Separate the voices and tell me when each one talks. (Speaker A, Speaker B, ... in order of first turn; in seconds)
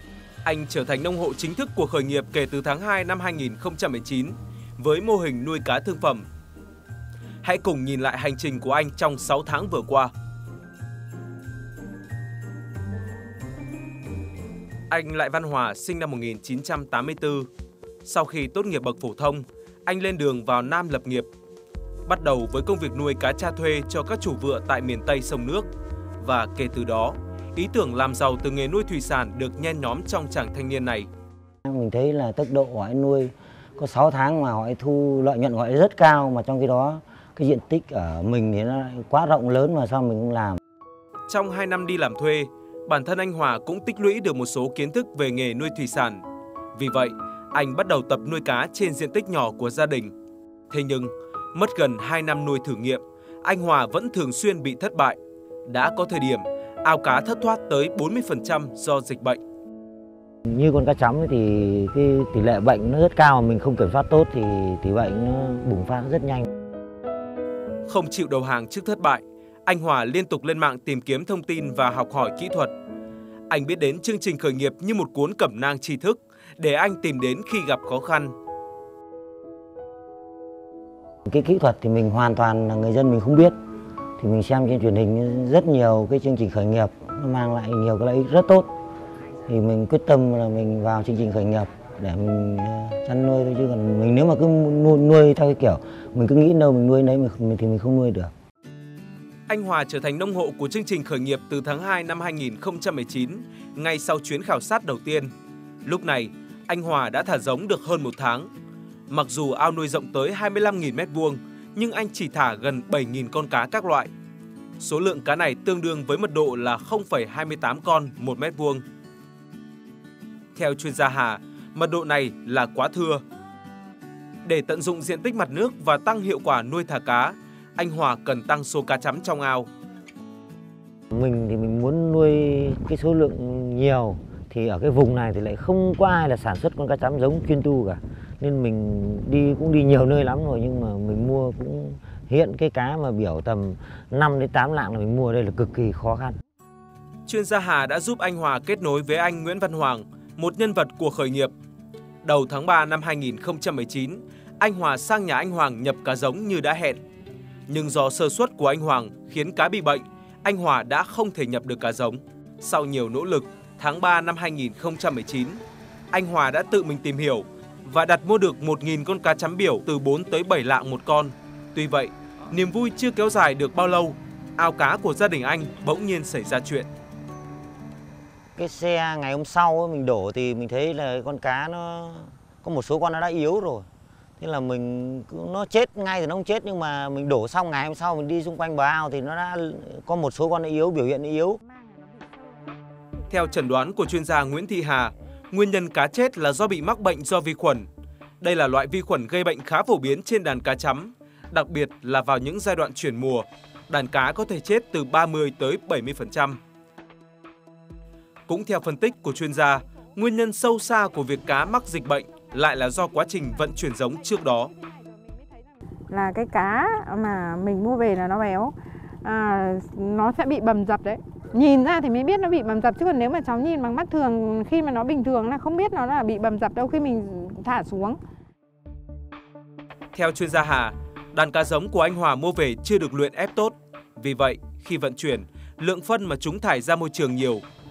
Speaker A: 0.4-6.3, 7.4-10.1, 14.9-17.5, 18.1-21.3, 22.1-25.7, 26.2-31.1, 41.3-46.2, 46.7-50.1, 50.7-59.4, 67.9-72.7, 73.5-78.3, 99.5-105.3, 105.8-108.5, 109.1-114.1, 114.8-118.8, 120.5-123.2, 124.4-129.7, 147.3-151.5, 152.2-157.0, 157.7-165.6, 166.1-176.9, 193.3-197.9, 198.4-206.6, 208.5-214.7, 230.1-237.6
Speaker B: 31.7-40.6, 60.5-66.5, 81.3-83.6, 84.2-88.7, 89.5-98.3, 131.1-146.4, 178.6-183.9, 184.4-191.6
Speaker C: 191.7-192.6, 216.1-228.2